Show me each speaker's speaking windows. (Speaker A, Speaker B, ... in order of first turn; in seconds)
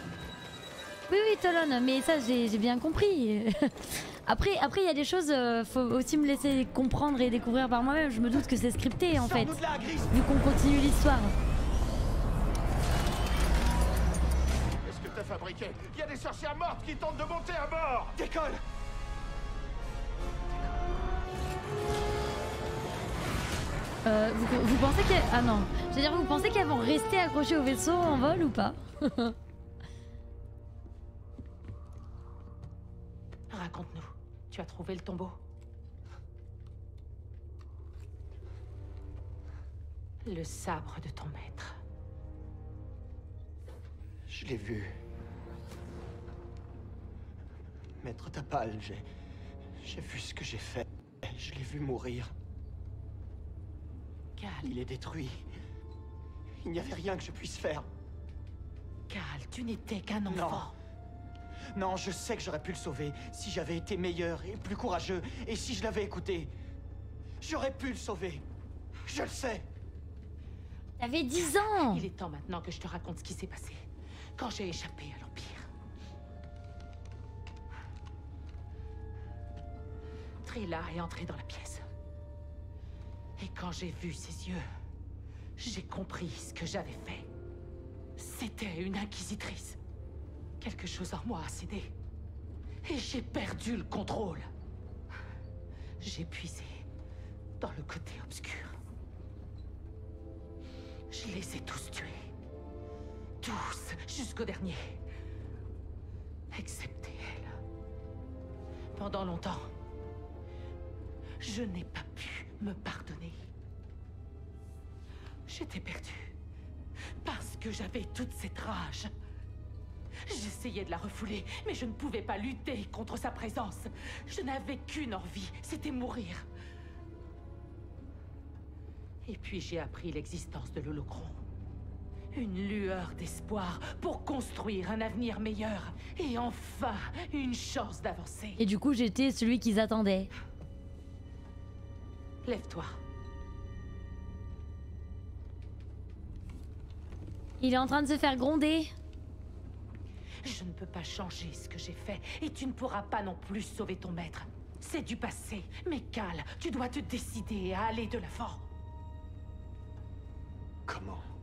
Speaker A: 1.1-9.6, 10.1-11.3, 24.0-29.4, 71.0-72.0, 138.6-140.3, 147.6-148.9
Speaker B: 9.2-10.1, 18.1-18.6, 44.3-45.0, 48.0-49.0, 49.8-52.3, 54.6-55.5, 56.6-57.9, 60.3-60.7, 61.7-66.5, 67.4-68.5, 69.0-69.6, 160.9-161.2
Speaker C: 14.8-18.1
Speaker D: 33.5-35.4, 40.2-41.8, 54.4-54.7, 59.1-60.8, 71.3-73.8, 74.3-75.7, 80.4-81.8, 83.4-84.6, 85.6-87.3, 88.2-89.8, 90.6-91.9, 92.8-94.5, 96.0-96.8, 97.6-98.8, 101.1-102.2, 103.4-105.0, 106.5-107.6, 108.9-109.7, 111.4-113.4, 115.5-116.3, 117.2-119.1, 120.3-126.5, 129.2-131.4, 132.3-138.6, 142.4-142.9, 150.4-158.7